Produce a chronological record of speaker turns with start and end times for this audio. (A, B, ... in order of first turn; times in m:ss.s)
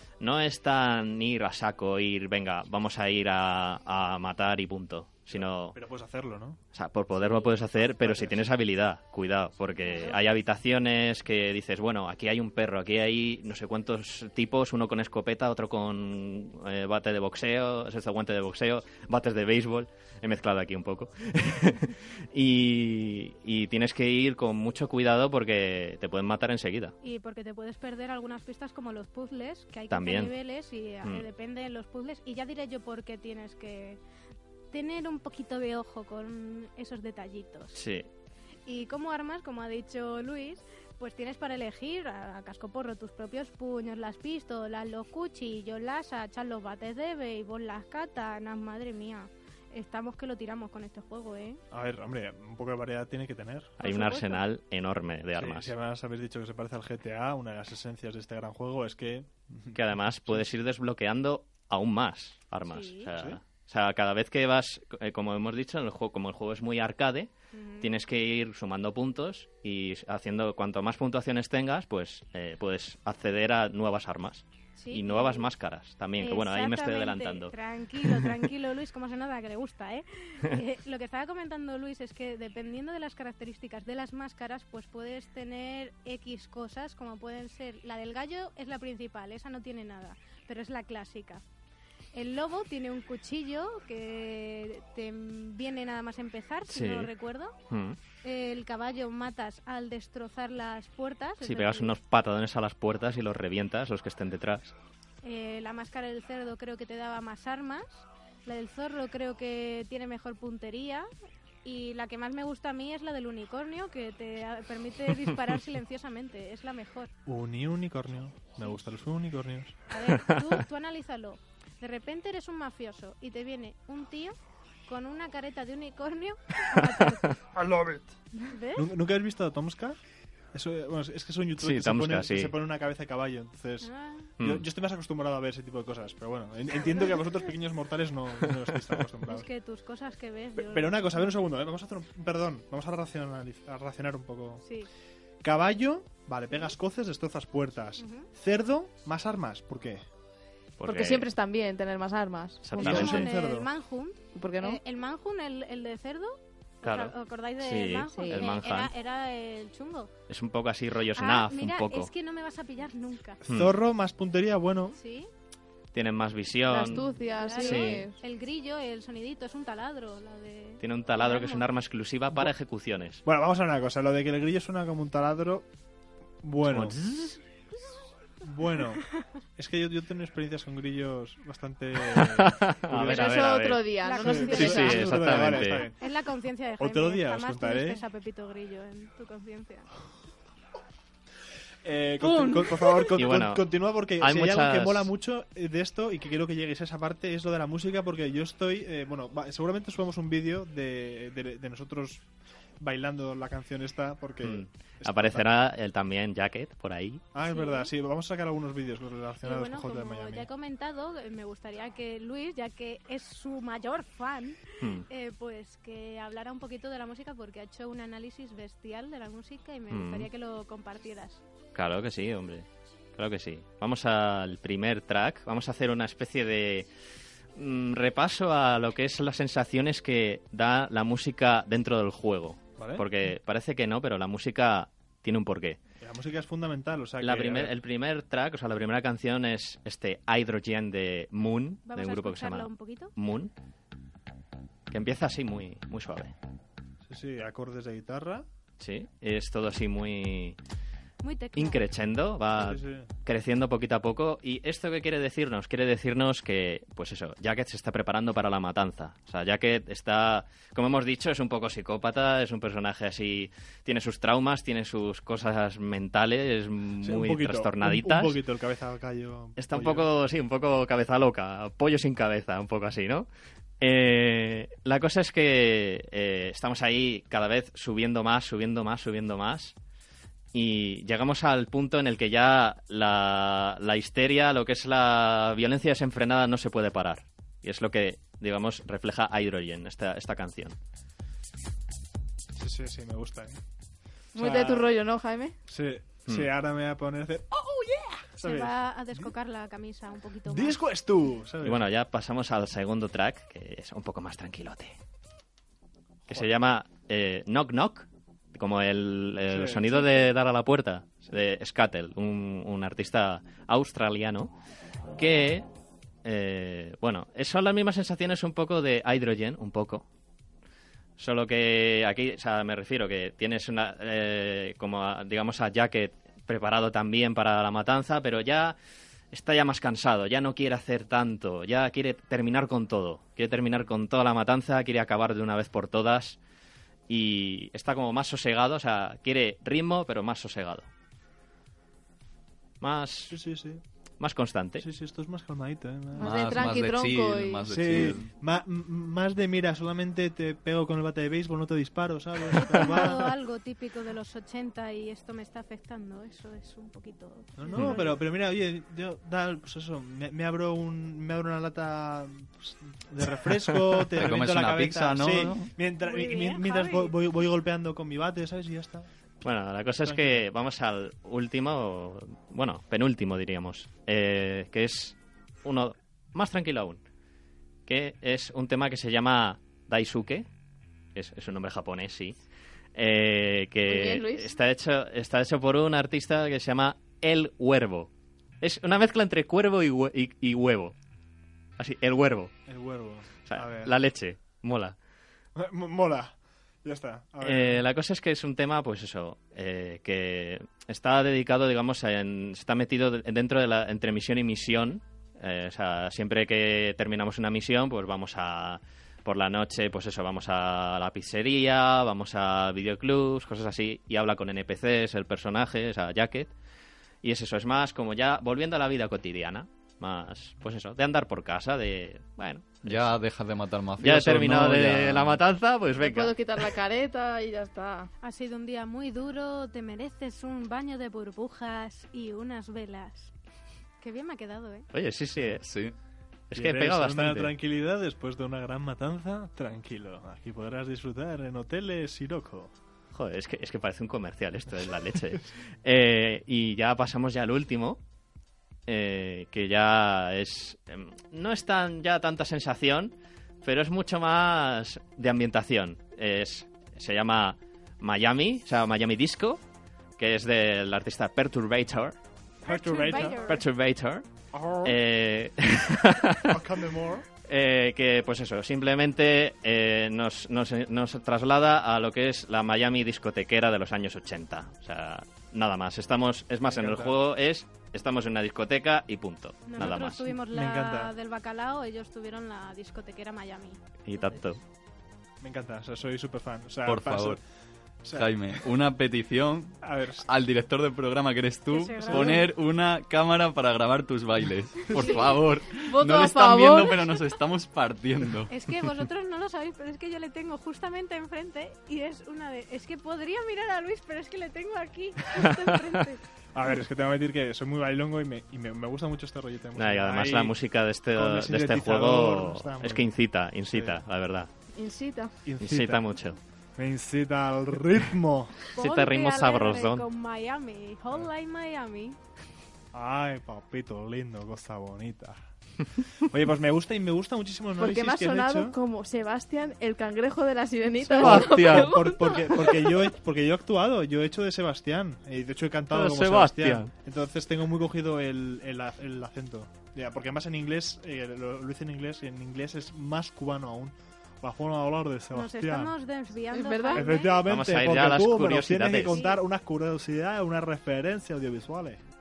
0:00.2-0:05.8 A
0:05.3-0:06.6 B
0:06.7-0:27.0 A
0:07.2-0:08.5 B
0:27.0-0:34.0 C
0:29.9-0:30.4 A
0:34.7-0:37.8 C
0:37.7-0:38.1 A
0:38.6-0:51.6 C
0:51.7-0:53.8 B
0:53.8-0:55.7 A
0:53.8-0:54.4 C
0:55.4-1:00.4 B
0:59.7-1:18.3 A
1:02.7-1:03.0 C
1:03.1-1:03.4 B
1:07.5-1:07.9 C
1:14.7-1:15.5 C
1:16.2-1:31.4 C
1:32.1-1:37.6 C
1:36.7-1:37.1 A
1:37.7-1:38.0 A
1:38.2-1:41.9 C
1:41.4-1:44.7 A
1:45.2-1:51.1 C
1:51.6-1:57.1 C
1:57.2-1:59.8 B
1:59.9-2:07.3 C
2:00.1-2:00.6 A
2:07.5-2:08.1 B
2:08.5-2:08.8 C
2:08.8-2:10.0 B
2:10.5-2:19.4 B
2:11.6-2:12.6 A
2:13.8-2:14.3 C
2:14.4-2:14.6 A
2:19.3-2:21.3 C
2:20.6-2:24.6 B
2:24.6-2:24.9 C
2:25.4-2:30.0 B
2:28.0-2:28.3 C
2:30.8-2:31.3 A
2:30.8-2:33.2 D
2:32.6-2:33.3 A
2:32.7-2:33.7 B
2:33.1-2:40.1 C
2:34.3-2:34.8 D
2:36.8-2:38.9 A
2:38.1-2:38.7 D
2:40.3-2:42.1 A
2:41.2-2:43.4 C
2:43.4-2:45.0 B
2:43.5-2:43.8 A
2:44.9-2:45.3 C
2:45.9-2:48.1 A
2:46.6-2:48.2 D
2:47.4-2:51.7 C
2:50.8-2:53.2 A
2:53.2-2:55.6 B
2:56.4-2:57.0 B
2:56.6-2:57.4 A
2:58.4-2:59.0 B
2:59.6-3:03.5 B
3:02.0-3:05.9 A
3:03.0-3:05.2 D
3:04.0-3:04.9 C
3:04.1-3:06.1 B
3:05.9-3:09.9 C
3:06.8-3:08.0 B
3:11.8-3:22.2 B
3:12.2-3:13.0 D
3:13.1-3:13.6 A
3:14.2-3:15.1 A
3:22.8-3:25.5 B
3:24.4-3:27.2 A
3:27.3-3:30.5 B
3:27.5-3:27.9 C
3:29.4-3:41.4 C
3:34.8-3:35.0 A
3:39.9-3:40.3 A
3:41.7-3:46.9 A
3:47.5-3:55.8 A
3:52.8-3:53.0 B
3:56.0-3:57.7 B
3:57.2-4:03.5 A
4:01.8-4:03.1 C
4:04.9-4:06.3 A
4:07.1-4:08.4 B
4:08.8-4:10.6 A
4:11.2-4:11.9 C
4:11.5-4:28.4 A
4:12.5-4:13.1 B
4:27.0-4:30.1 B
4:29.6-4:33.3 A
4:33.8-4:39.8 A
4:40.5-4:50.8 A
4:52.6-4:53.6 B
4:54.3-4:54.9 B
4:54.3-4:55.5 D
4:55.7-4:59.3 B
4:58.4-5:00.7 C
5:00.4-5:01.8 B
5:01.6-5:05.0 A
5:06.3-5:14.5 A
5:09.5-5:10.3 B
5:15.2-5:15.7 A
5:16.2-5:20.0 A
5:21.2-5:28.8 A
5:29.3-5:36.4 A
5:37.1-5:40.9 A
5:42.8-5:43.4 A
5:43.3-5:43.8 B
5:44.2-5:44.8 A
5:44.8-5:46.3 B
5:46.2-5:47.7 D
5:46.2-5:48.3 E
5:47.7-5:53.3 B
5:52.5-5:58.2 C
5:57.5-6:09.1 B
5:57.7-5:58.1 A
6:04.1-6:05.7 E
6:06.0-6:07.1 C
6:09.4-6:17.0 A
6:10.0-6:10.4 B
6:17.9-6:20.5 A
6:21.1-6:22.4 A
6:22.9-6:28.1 A
6:23.8-6:24.6 D
6:28.6-6:31.0 A
6:31.8-6:32.5 A
6:32.7-6:34.0 B
6:33.4-6:35.0 A
6:35.6-6:37.9 B
6:37.4-6:56.5 A
6:57.2-7:03.1 A
7:02.8-7:05.4 E
7:04.0-7:06.7 A
7:06.0-7:08.1 D
7:08.2-7:13.3 C
7:14.0-7:14.9 C
7:14.9-7:15.6 A
7:15.6-7:15.9 E
7:16.5-7:17.6 A
7:16.5-7:22.7 B
7:23.1-7:28.0 A
7:25.1-7:25.4 B
7:28.9-7:39.6 A
7:40.2-7:42.2 A
7:42.6-7:43.6 B
7:42.6-7:43.5 C
7:43.0-7:44.3 A
7:44.5-7:45.0 B
7:44.8-7:46.6 A
7:46.5-7:47.2 B
7:47.5-8:00.2 A
7:56.7-7:57.2 B
7:59.6-8:04.5 C
7:59.8-8:01.1 B
8:04.0-8:04.6 A
8:05.4-8:07.4 B
8:06.8-8:07.4 E
8:08.0-8:08.4 B
8:08.1-8:18.9 E
8:09.8-8:10.3 B
8:11.7-8:12.4 C
8:12.0-8:12.5 B
8:14.9-8:15.4 B
8:15.8-8:17.2 D
8:18.5-8:26.2 C
8:25.3-8:25.9 A
8:26.5-8:30.6 B
8:29.7-8:34.5 A
8:31.1-8:33.2 B
8:33.7-8:34.0 B
8:34.7-8:35.3 D
8:35.4-8:36.0 B
8:35.6-8:36.4 A
8:36.8-8:38.6 B
8:38.8-8:40.0 A
8:38.8-8:42.2 C
8:42.9-8:45.4 B
8:46.2-8:48.8 B
8:47.8-8:53.0 D
8:51.0-9:05.9 B
8:51.1-8:52.0 A
8:55.9-8:56.9 A
9:05.3-9:07.4 C
9:06.5-9:07.1 D
9:06.9-9:12.0 B
9:07.4-9:09.2 A
9:09.1-9:09.4 C